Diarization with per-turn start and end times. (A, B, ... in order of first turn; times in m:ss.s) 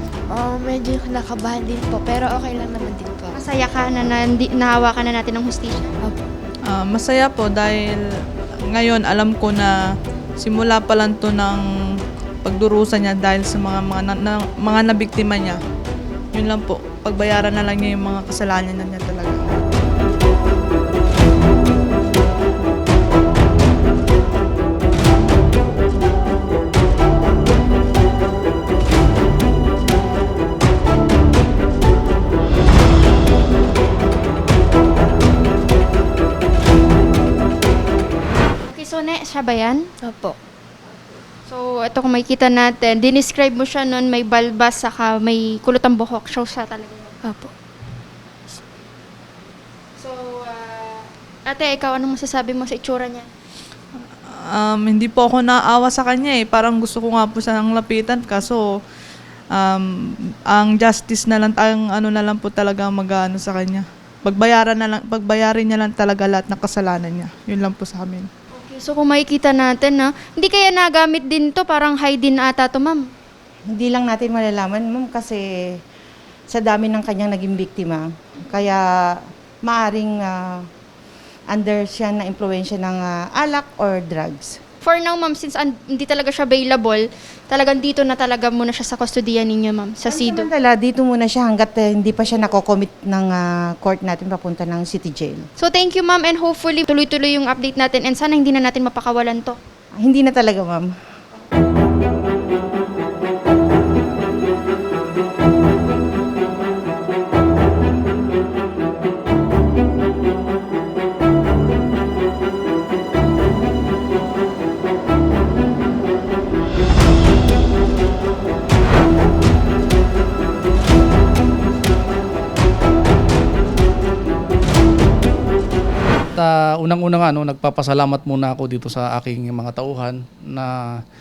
0:00.3-0:03.3 A
0:03.3-0:06.0 B
0:06.7-0:08.0 C
0:08.7-0:09.7 C
0:10.4-0:11.6 C
0:12.4-0:15.6 C
0:16.3-0:19.4 C
0:38.6-0:39.9 B
0:40.0-0:40.3 A
0:41.4-0:47.5 B
0:50.0-0:53.3 B
0:54.5-0:58.6 C
0:59.5-0:59.9 C
1:00.5-1:08.3 C
1:08.5-1:13.0 B
1:13.7-1:15.4 D
1:16.5-1:18.8 D
1:19.6-1:20.5 D
1:21.5-1:24.6 D
1:24.8-1:30.5 B
1:30.0-1:35.4 D
1:35.6-1:39.6 B
1:40.0-1:40.9 D
2:06.4-2:11.0 E